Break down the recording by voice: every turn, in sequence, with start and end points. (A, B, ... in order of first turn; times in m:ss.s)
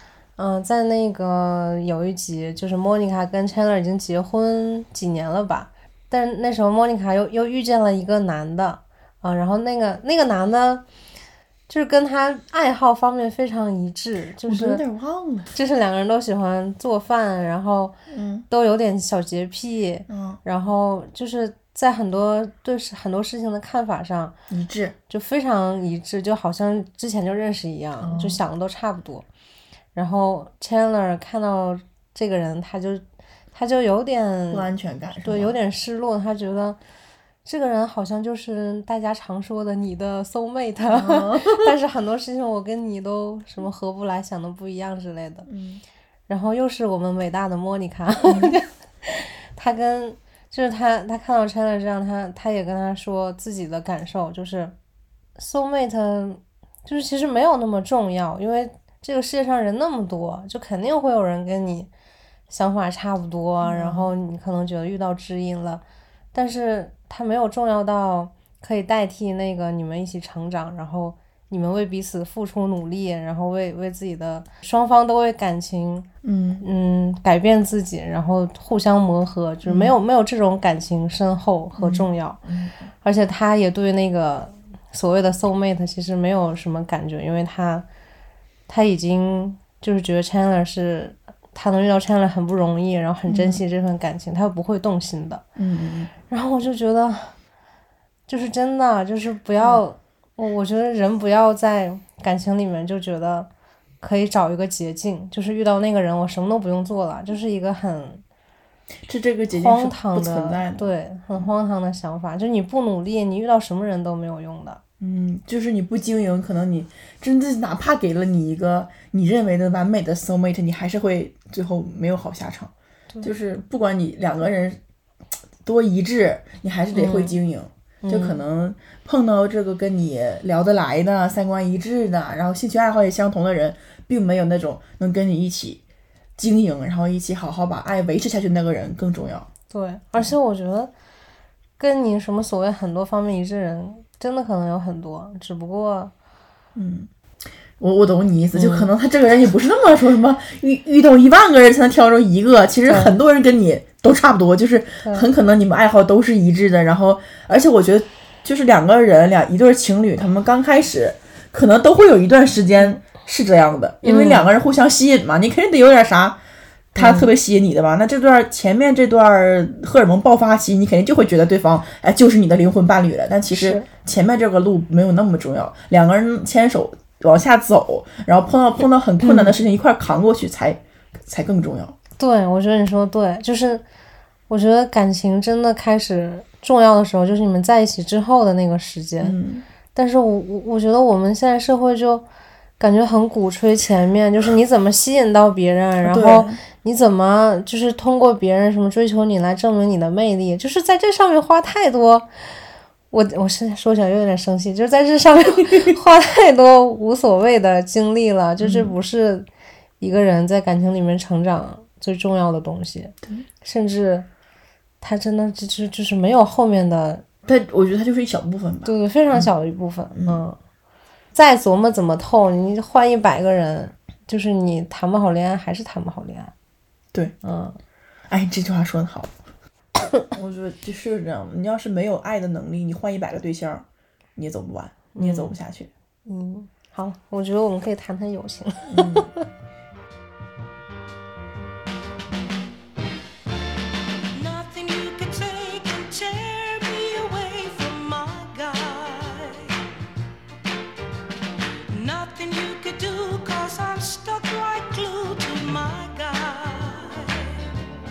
0:00.4-0:10.8 A
0:11.7-0:14.8 A
0:14.5-0:15.5 B
0:15.5-0:18.0 A
0:18.1-0:18.5 B
0:18.5-0:24.4 A
0:20.1-0:20.4 B
0:24.5-0:25.0 B
0:25.1-0:29.3 A
0:28.0-0:28.4 B
0:30.0-0:34.7 A
0:34.5-0:35.6 B
0:35.2-0:36.8 A
0:37.4-0:45.5 A
0:40.9-0:41.7 B
0:45.5-0:45.8 B
0:46.3-0:54.8 A
0:48.3-0:48.5 B
0:55.4-1:01.9 A
1:02.5-1:05.8 A
1:03.6-1:04.1 B
1:06.3-1:16.1 A
1:16.2-1:16.7 B
1:16.6-1:22.4 A
1:19.7-1:19.9 B
1:21.8-1:22.8 B
1:23.0-1:27.9 A
1:28.7-1:35.4 A
1:33.3-1:33.6 B
1:35.6-1:36.1 B
1:36.3-1:37.4 A
1:38.3-1:43.5 A
1:44.0-1:48.2 A
1:49.1-1:51.5 B
1:49.5-1:54.8 A
1:55.0-2:04.8 B
2:05.6-2:15.8 B
2:06.9-2:07.4 A
2:08.0-2:08.4 A
2:16.4-2:19.5 B
2:19.7-2:20.9 A
2:21.8-2:26.1 A
2:26.8-2:27.1 B
2:27.8-2:46.4 B
2:28.5-2:28.9 A
2:32.9-2:33.2 A
2:35.0-2:35.3 A
2:44.0-2:44.5 A
2:46.9-3:02.0 B
2:47.0-2:47.3 A
2:53.5-2:53.9 A
2:59.2-2:59.6 A
3:02.2-3:03.8 A
3:04.5-3:09.4 A
3:09.2-3:09.6 B
3:09.9-3:12.2 A
3:12.8-3:22.3 A
3:16.0-3:16.6 B
3:23.1-3:29.5 A
3:28.6-3:28.9 B
3:30.0-3:34.3 A
3:35.0-3:37.2 A
3:37.5-3:39.5 B
3:38.8-3:40.6 A
3:40.2-3:40.4 B
3:41.3-3:46.5 A
3:47.4-3:47.8 A
3:48.3-3:49.3 B
3:50.3-3:55.9 B
3:55.2-3:55.6 A
3:56.3-3:59.4 A
3:58.9-3:59.3 B
4:04.4-4:09.7 C
4:11.9-4:17.5 C